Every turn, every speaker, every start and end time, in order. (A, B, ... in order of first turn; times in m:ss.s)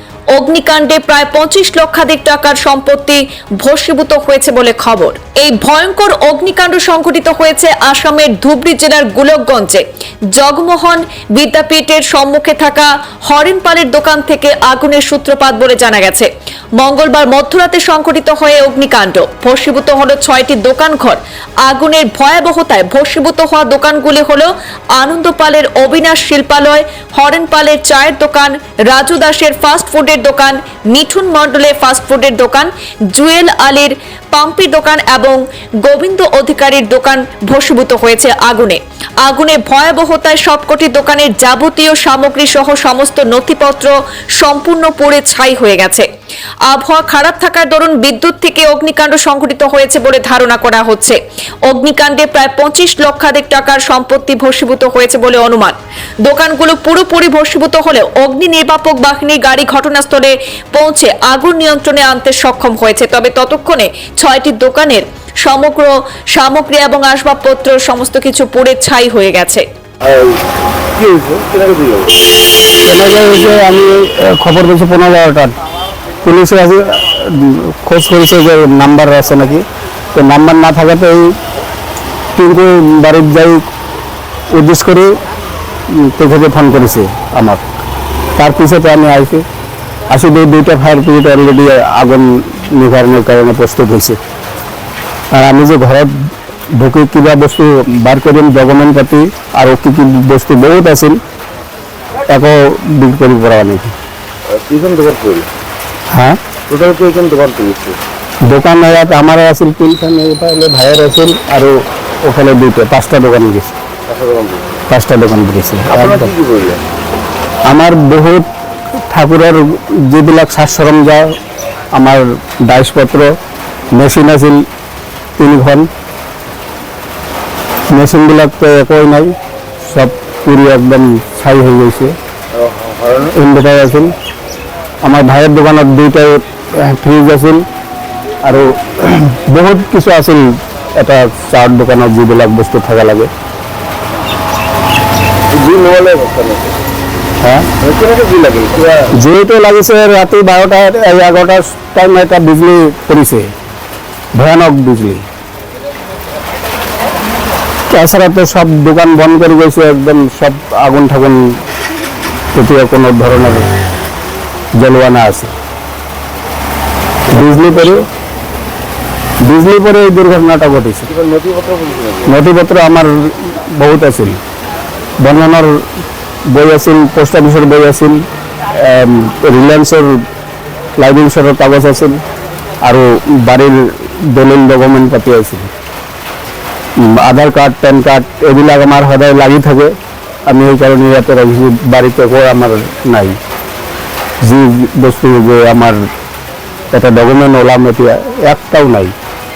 0:00.3-0:46.1 A
0:46.7-1:09.6 A
1:10.0-1:10.4 B
1:10.9-1:12.1 B
1:12.8-1:15.5 C
1:16.2-1:21.3 C
1:22.4-1:23.6 C
1:24.5-1:25.1 C
1:25.9-1:27.6 C
1:28.4-1:29.4 C
1:30.1-1:34.2 C
1:35.3-1:41.2 C
1:42.3-1:43.9 C
1:44.5-1:45.5 B
1:46.1-1:46.4 C
1:46.7-1:48.0 B
1:48.4-1:53.7 C
1:54.1-1:54.8 B
1:54.9-1:56.3 C
1:55.9-1:56.8 B
1:57.7-1:58.5 C
1:59.1-2:01.4 C
2:02.0-2:03.3 C
2:03.9-2:04.6 C
2:05.4-2:05.9 C
2:07.9-2:09.3 C
2:09.8-2:12.1 C
2:12.5-2:13.3 B
2:13.3-2:14.1 C
2:15.0-2:17.6 C
2:18.4-2:23.3 C
2:25.5-2:26.7 B
2:27.4-2:27.7 C
2:27.8-2:29.1 B
2:29.1-2:33.5 C
2:34.3-2:35.2 C
2:37.9-2:41.6 C
2:42.5-2:43.6 C
2:44.8-2:45.5 C
2:47.3-2:48.1 C
2:47.3-2:48.0 B
2:49.4-2:51.1 C
2:51.1-2:52.3 B
2:52.2-2:54.4 C
2:55.2-2:55.8 C
2:56.5-3:00.2 C
3:01.0-3:02.2 C
3:02.8-3:05.7 C
3:07.0-3:09.9 C
3:10.5-3:13.4 C
3:14.4-3:16.0 C
3:16.9-3:19.1 C